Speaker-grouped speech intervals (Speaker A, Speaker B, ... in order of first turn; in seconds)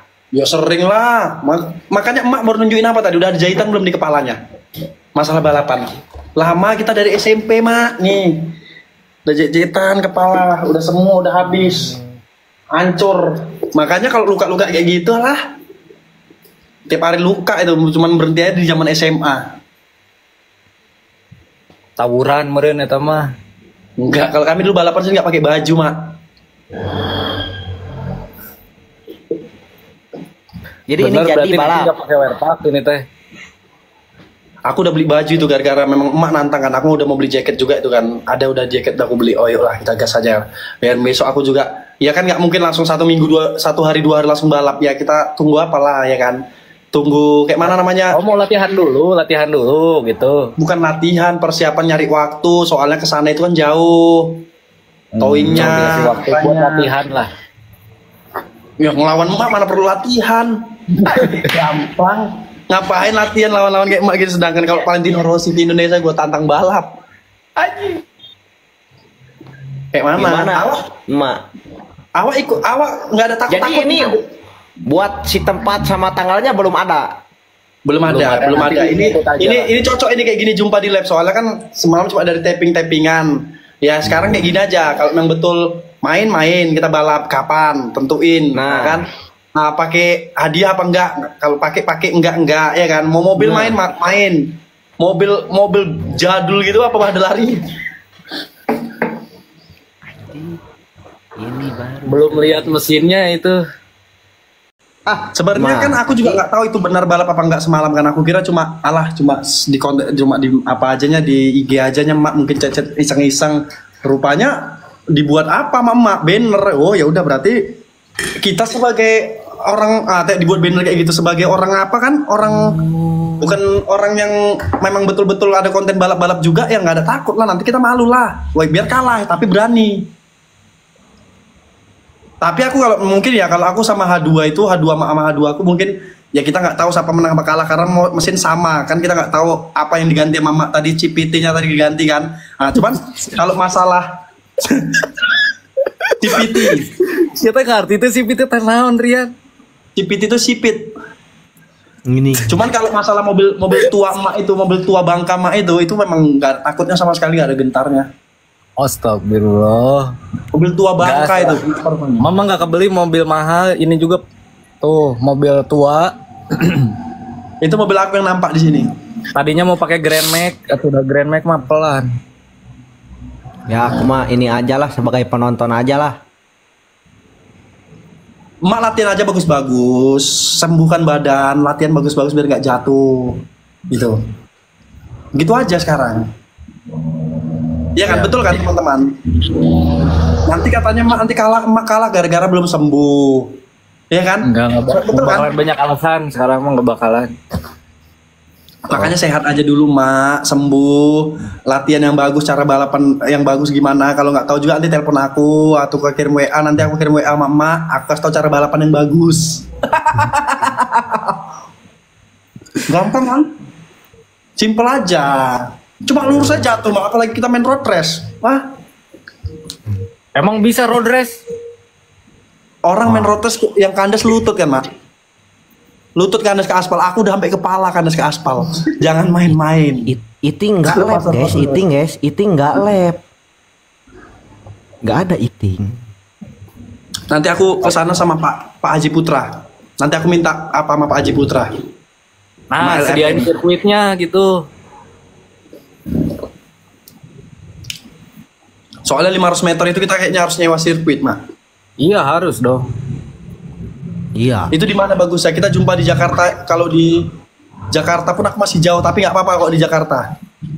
Speaker A: 0.3-4.4, 5.1-8.4, 9.2-12.0, 12.7-15.4, 16.9-19.4, 24.0-26.1, 34.7-46.4, 46.9-48.2, 50.6-54.4, 55.2-56.9, 58.8-66.9, 69.9-70.8, 72.2-74.2, 77.8-89.0, 89.6-97.6, 105.3-114.6, 115.1-117.6, 118.4-122.8, 123.4-130.1, 132.4-144.1, 146.2-146.9, 149.9-150.8, 152.5-158.1, 160.5-162.2, 167.6-168.9, 178.6-183.3, 183.9-184.2, 185.3-186.2, 187.9-189.1, 190.4-193.5, 194.1-195.5, 198.9-211.2, 212.9-213.5, 214.6-218.6, 222.8-224.8, 226.2-230.1, 230.8-231.8, 237.3-239.5, 240.0-241.7, 242.8-243.5, 249.1-251.4, 254.7-257.2, 257.9-260.3
Speaker B: 22.0-23.3, 31.0-33.0, 48.1-50.5, 55.1-57.3, 61.1-61.4, 78.1-79.7, 102.1-103.6, 146.3-149.3, 158.8-160.1, 161.0-161.6, 162.2-164.2, 164.8-166.9, 169.3-172.1, 194.4-197.3, 220.3-221.4, 242.7-244.5, 252.0-252.8
Speaker C: 30.9-31.9, 70.2-71.4, 73.5-74.2, 74.9-77.1, 88.5-89.0, 100.2-100.6, 101.4-102.8, 105.1-106.4, 122.9-123.4, 152.1-152.5, 173.7-176.2, 223.0-223.3, 230.1-233.2, 235.0-235.9, 254.3-254.7